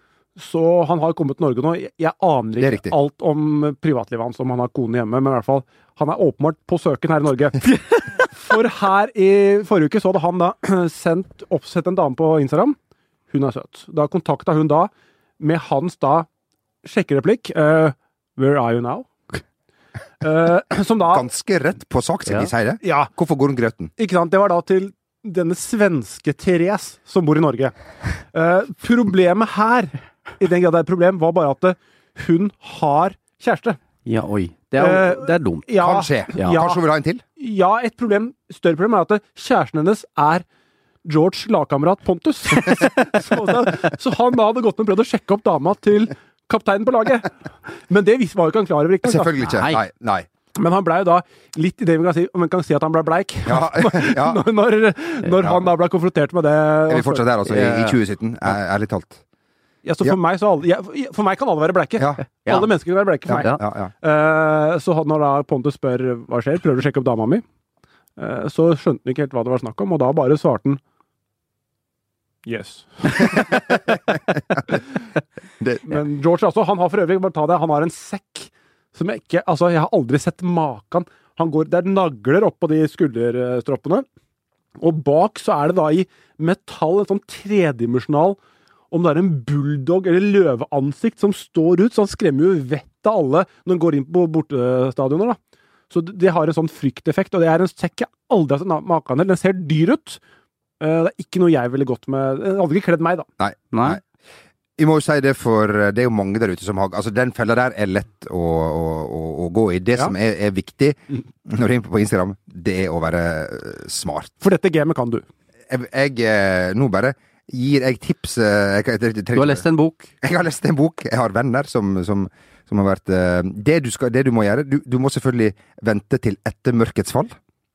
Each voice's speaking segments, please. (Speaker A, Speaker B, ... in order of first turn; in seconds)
Speaker A: 0.4-12.8, 13.3-16.3, 16.8-19.4, 20.2-21.3, 22.8-23.1, 24.0-27.7, 28.3-33.8, 34.8-36.8, 37.4-40.5, 41.0-49.5, 50.6-57.3, 59.9-67.4, 68.2-70.8, 72.5-73.8, 75.9-84.0, 84.8-88.4, 88.9-95.4, 95.9-100.2, 100.8-103.3, 114.4-115.2
Speaker B: 2.6-2.9, 21.1-23.9, 35.8-37.2, 49.0-50.3, 53.5-54.4, 56.9-59.2, 62.0-62.2, 63.3-63.9, 73.3-74.6, 75.6-76.0, 103.4-104.0, 104.8-114.3, 115.7-119.7, 120.2-127.4
Speaker C: 34.1-35.7, 36.4-36.6, 49.5-49.8, 57.5-58.0, 63.3-63.6, 103.7-104.0, 119.3-120.1